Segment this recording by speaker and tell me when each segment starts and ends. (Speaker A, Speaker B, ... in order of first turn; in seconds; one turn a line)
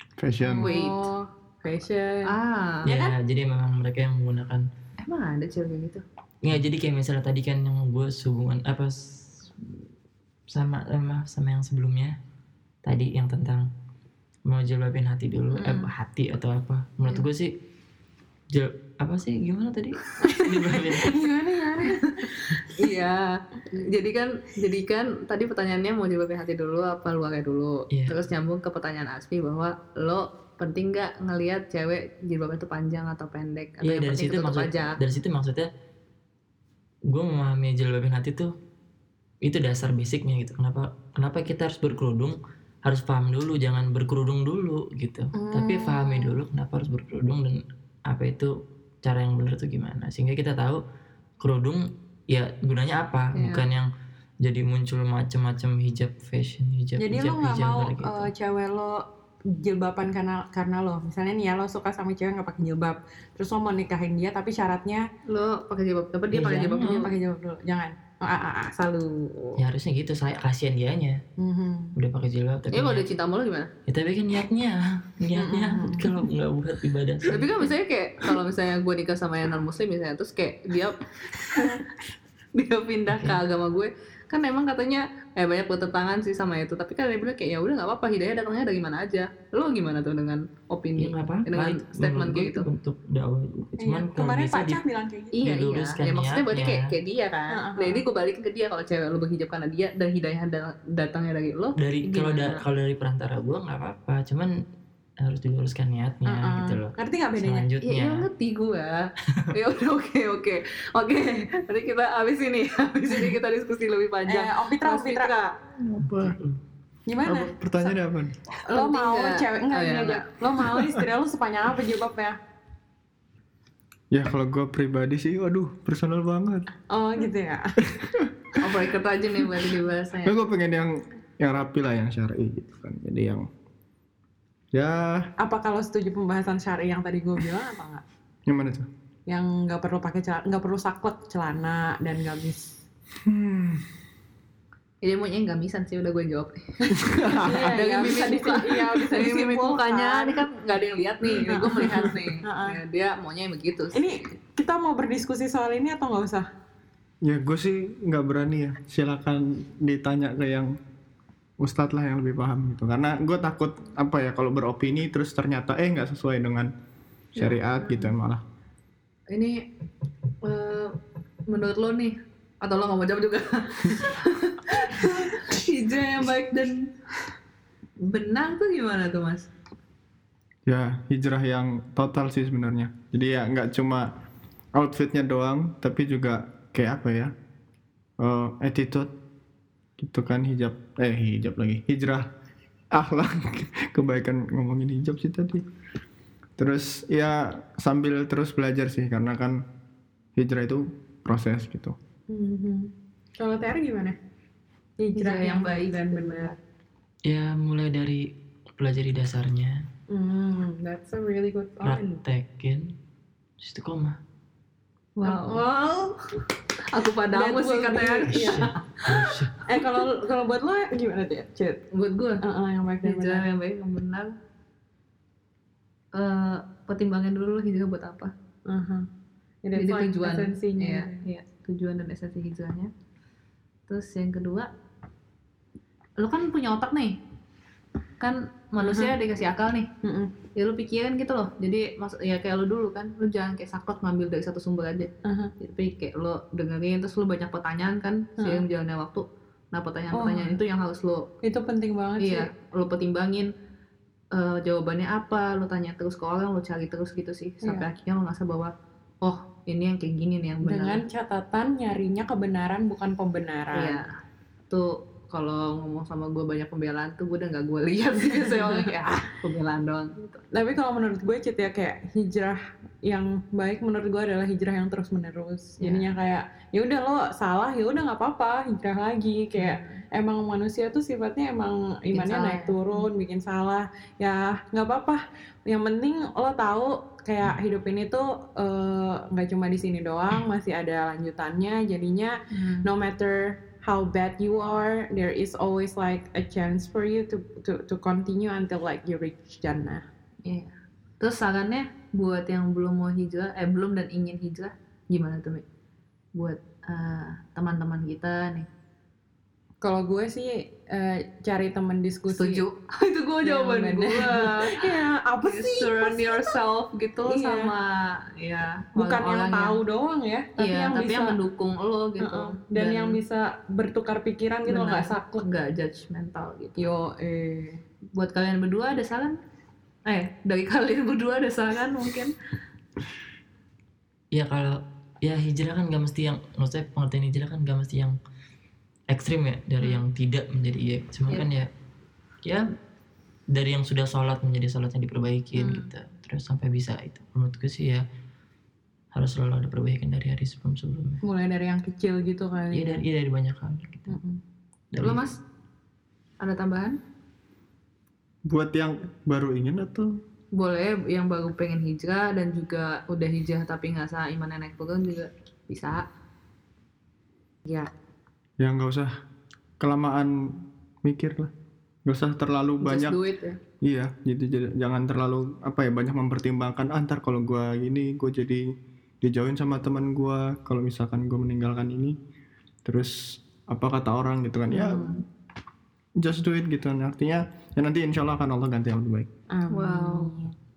Speaker A: 0.2-0.7
Speaker B: 0.4-2.3
Speaker C: 0.6-1.1
Speaker C: 2.3-3.1
Speaker D: 2.9-4.7
Speaker C: 5.0-6.0
Speaker D: 6.4-9.8
Speaker D: 10.5-12.1
Speaker D: 12.8-13.7
Speaker D: 14.5-17.6
Speaker C: 15.6-15.9
Speaker D: 18.5-21.2
Speaker C: 20.2-20.6
Speaker B: 20.2-22.4
Speaker C: 22.1-35.0
Speaker D: 27.9-28.2
Speaker D: 33.8-35.7
Speaker D: 37.1-38.5
Speaker D: 39.4-50.8
Speaker B: 45.4-46.4
Speaker D: 51.4-53.9
Speaker C: 53.3-53.6
Speaker D: 54.4-58.3
Speaker B: 57.0-65.0
Speaker C: 65.3-67.1
Speaker D: 66.3-67.1
Speaker B: 66.8-69.6
Speaker D: 69.6-71.2
Speaker B: 71.4-72.0
Speaker D: 72.0-73.0
Speaker C: 72.7-73.7
Speaker D: 73.9-77.8
Speaker B: 75.3-76.2
Speaker C: 77.2-81.0
Speaker C: 81.5-81.8
Speaker B: 81.5-81.8
Speaker C: 82.5-92.7
Speaker D: 83.1-83.4
Speaker D: 91.0-94.8
Speaker B: 93.8-95.4
Speaker C: 95.3-102.6
Speaker D: 95.4-96.9
Speaker B: 97.5-98.0
Speaker D: 101.8-104.6
Speaker D: 105.2-108.3
Speaker B: 106.3-107.7
Speaker C: 107.8-116.3
Speaker B: 114.3-115.3
Speaker A: 116.0-116.3
Speaker D: 116.0-116.6
Speaker B: 117.1-117.5
Speaker A: 117.3-118.4
Speaker B: 118.7-122.4
Speaker C: 118.7-120.3
Speaker A: 124.1-126.7
Speaker B: 126.9-127.7
Speaker A: 127.8-128.8
Speaker C: 128.6-130.4
Speaker A: 130.2-133.5
Speaker A: 134.7-135.3
Speaker B: 135.4-138.0
Speaker A: 138.5-138.9
Speaker B: 139.3-142.7
Speaker A: 143.2-143.8
Speaker C: 145.0-154.0
Speaker B: 146.9-150.4
Speaker A: 146.9-148.1
Speaker B: 151.4-152.8
Speaker B: 153.9-156.5
Speaker A: 157.2-160.7
Speaker A: 161.6-166.7
Speaker A: 167.3-168.4
Speaker C: 167.4-168.1
Speaker C: 169.3-169.6
Speaker C: 170.4-171.0
Speaker C: 171.5-176.9
Speaker C: 178.0-179.5
Speaker A: 180.7-184.1
Speaker A: 184.8-187.3
Speaker A: 188.2-189.2
Speaker A: 190.0-192.3
Speaker A: 192.9-195.6
Speaker A: 196.6-199.6
Speaker A: 200.4-202.0
Speaker B: 202.3-204.2
Speaker B: 205.0-206.6
Speaker C: 205.2-206.5
Speaker D: 207.3-209.8
Speaker B: 210.1-212.2
Speaker D: 211.8-212.9
Speaker D: 213.6-214.2
Speaker C: 215.2-219.5
Speaker B: 215.2-215.7
Speaker B: 217.3-218.7
Speaker D: 218.3-219.6
Speaker B: 219.7-221.8
Speaker C: 221.9-222.4
Speaker B: 222.4-223.4
Speaker C: 223.0-224.4
Speaker C: 226.1-228.3
Speaker B: 228.7-229.1
Speaker B: 229.6-231.3
Speaker C: 229.8-232.9
Speaker C: 233.9-234.7
Speaker C: 236.2-237.2
Speaker C: 238.2-239.9
Speaker B: 238.8-239.1
Speaker B: 240.0-240.3
Speaker C: 240.6-251.3
Speaker B: 245.2-245.5
Speaker B: 248.4-248.6
Speaker B: 250.1-250.6
Speaker B: 251.4-252.5
Speaker C: 252.2-253.5
Speaker C: 254.3-261.0
Speaker B: 260.6-264.0
Speaker C: 263.7-264.2
Speaker C: 264.7-270.4
Speaker B: 270.5-300.0
Speaker C: 275.8-276.1
Speaker C: 279.6-280.0
Speaker C: 282.1-283.1
Speaker C: 292.5-292.9
Speaker C: 300.4-305.6
Speaker C: 306.4-308.7
Speaker B: 309.8-312.6
Speaker C: 312.4-319.8
Speaker B: 313.4-316.6
Speaker B: 317.2-317.7
Speaker B: 319.0-321.4
Speaker C: 320.6-323.2
Speaker B: 322.2-325.5
Speaker C: 324.7-326.9
Speaker B: 326.8-327.8
Speaker C: 328.1-329.4
Speaker C: 330.1-332.3
Speaker D: 334.3-338.2
Speaker D: 339.1-341.7
Speaker D: 343.5-348.0
Speaker C: 345.6-345.9
Speaker D: 349.1-351.2
Speaker B: 351.2-353.0
Speaker D: 352.7-354.2
Speaker B: 354.1-354.4
Speaker D: 354.9-355.2
Speaker C: 355.0-355.4
Speaker C: 356.4-357.0
Speaker A: 358.5-360.2
Speaker C: 360.6-366.1
Speaker A: 368.6-369.1
Speaker A: 369.8-371.5
Speaker A: 372.1-373.2
Speaker C: 372.8-373.6
Speaker A: 373.8-378.7
Speaker A: 379.2-382.2
Speaker A: 382.9-385.2
Speaker B: 384.7-385.2
Speaker A: 386.2-389.3
Speaker B: 389.5-390.5
Speaker C: 389.7-390.4